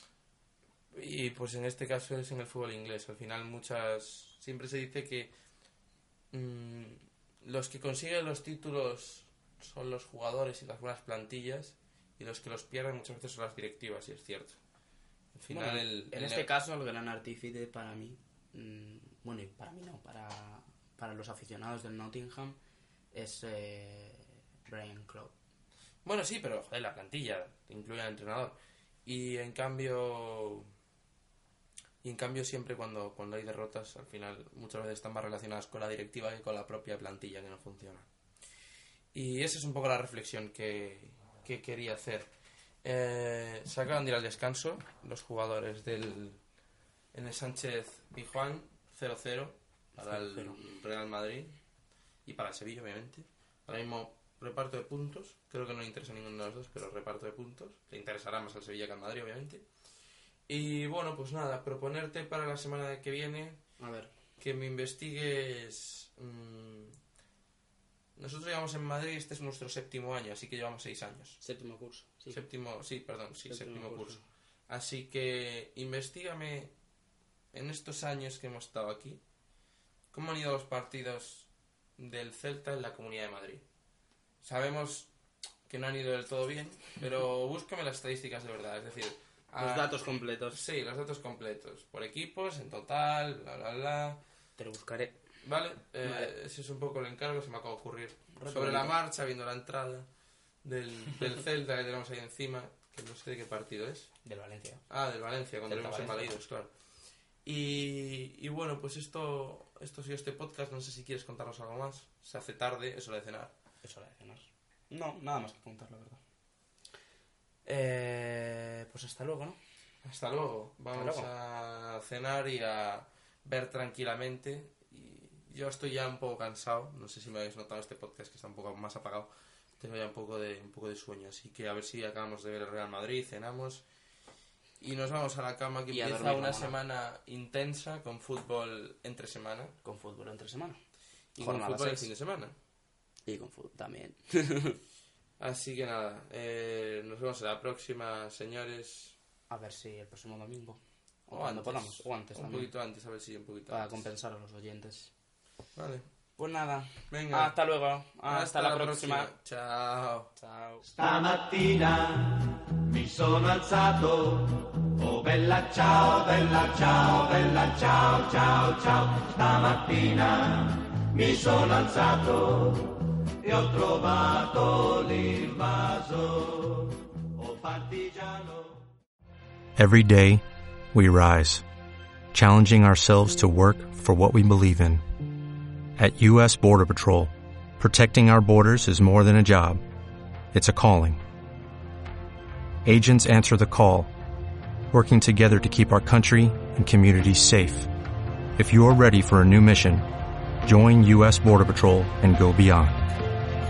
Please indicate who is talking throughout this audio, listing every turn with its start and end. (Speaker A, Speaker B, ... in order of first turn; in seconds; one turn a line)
Speaker A: 0.9-5.3
Speaker A: 6.3-14.6
Speaker A: 15.3-16.5
Speaker B: 15.5-22.6
Speaker B: 23.1-25.3
Speaker A: 26.1-30.7
Speaker A: 32.0-38.1
Speaker A: 39.1-42.3
Speaker A: 42.8-46.4
Speaker A: 47.1-51.6
Speaker B: 50.0-50.6
Speaker A: 52.2-59.7
Speaker A: 60.5-63.6
Speaker B: 63.8-64.1
Speaker A: 64.4-67.0
Speaker A: 68.2-71.4
Speaker B: 71.4-72.4
Speaker A: 72.3-76.7
Speaker B: 73.5-74.2
Speaker A: 77.5-79.2
Speaker A: 80.1-83.7
Speaker A: 84.4-85.1
Speaker A: 85.7-94.2
Speaker B: 89.6-90.6
Speaker B: 94.6-95.2
Speaker A: 95.4-100.1
Speaker B: 96.0-96.3
Speaker B: 98.3-99.0
Speaker A: 100.6-104.1
Speaker B: 104.2-104.8
Speaker A: 104.9-106.7
Speaker B: 105.7-106.3
Speaker A: 107.5-113.5
Speaker B: 113.8-116.2
Speaker B: 117.7-119.6
Speaker A: 120.0-133.8
Speaker B: 120.9-121.3
Speaker A: 134.8-139.8
Speaker B: 135.9-136.8
Speaker B: 139.8-140.8
Speaker B: 141.4-142.1
Speaker A: 141.4-142.6
Speaker B: 143.3-144.8
Speaker A: 145.4-149.2
Speaker B: 149.5-152.7
Speaker A: 151.3-153.9
Speaker B: 153.7-155.1
Speaker A: 155.8-156.1
Speaker B: 156.4-159.3
Speaker A: 157.1-157.5
Speaker A: 158.3-160.3
Speaker B: 160.4-160.9
Speaker C: 160.8-178.9
Speaker D: 179.8-181.7
Speaker D: 182.3-185.0
Speaker D: 186.0-189.8
Speaker D: 190.5-191.2
Speaker D: 192.8-194.1
Speaker D: 194.9-197.9
Speaker D: 198.6-200.1
Speaker D: 200.6-203.2